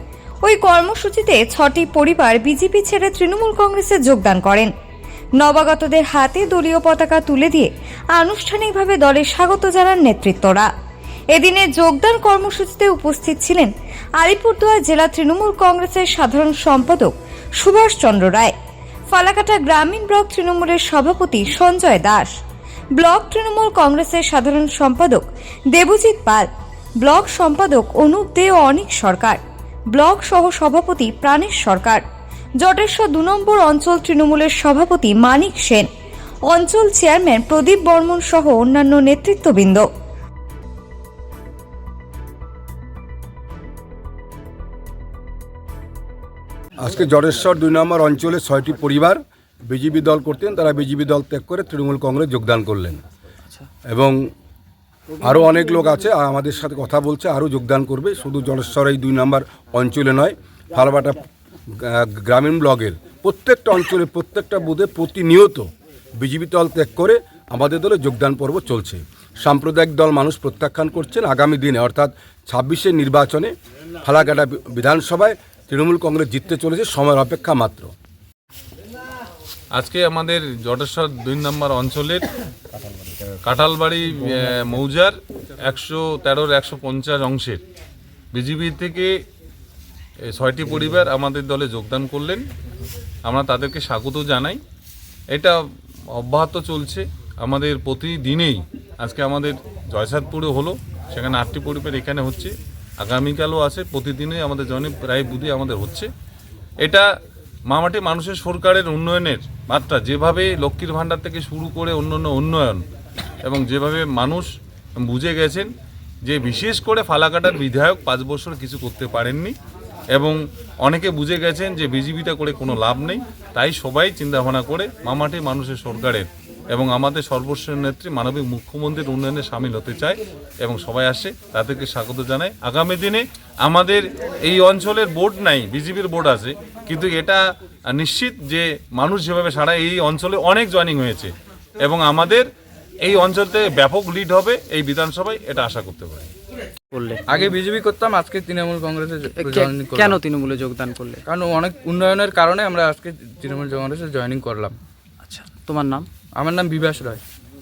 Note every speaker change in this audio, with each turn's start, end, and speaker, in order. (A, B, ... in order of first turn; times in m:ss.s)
0:00.4-0:04.7 A
0:05.4-0:10.7 A
0:11.3-0:18.5 A
0:19.1-0:22.3 A
0:23.0-0:26.5 A
0:27.0-0:29.4 A
0:29.9-0:32.0 A
0:32.6-0:35.9 A
0:36.5-0:39.9 A
0:46.8-0:53.0 B
0:53.9-0:54.3 B
0:55.2-1:05.7 B
1:06.2-1:13.5 B
1:14.0-1:17.9 B
1:19.8-1:22.2 C
1:23.4-1:27.6 C
1:28.3-1:29.1 C
1:30.2-1:32.5 C
1:33.2-1:34.6 C
1:35.3-1:35.6 C
1:36.2-1:46.1 C
1:47.7-1:52.8 C
1:53.4-1:55.7 C
1:56.2-1:59.6 C
2:00.1-2:22.5 C
2:23.0-2:26.3 C
2:26.9-2:27.6 D
2:27.3-2:30.2 E
2:29.4-2:31.2 D
2:31.2-2:34.8 E
2:35.2-2:36.1 D
2:36.4-2:37.2 E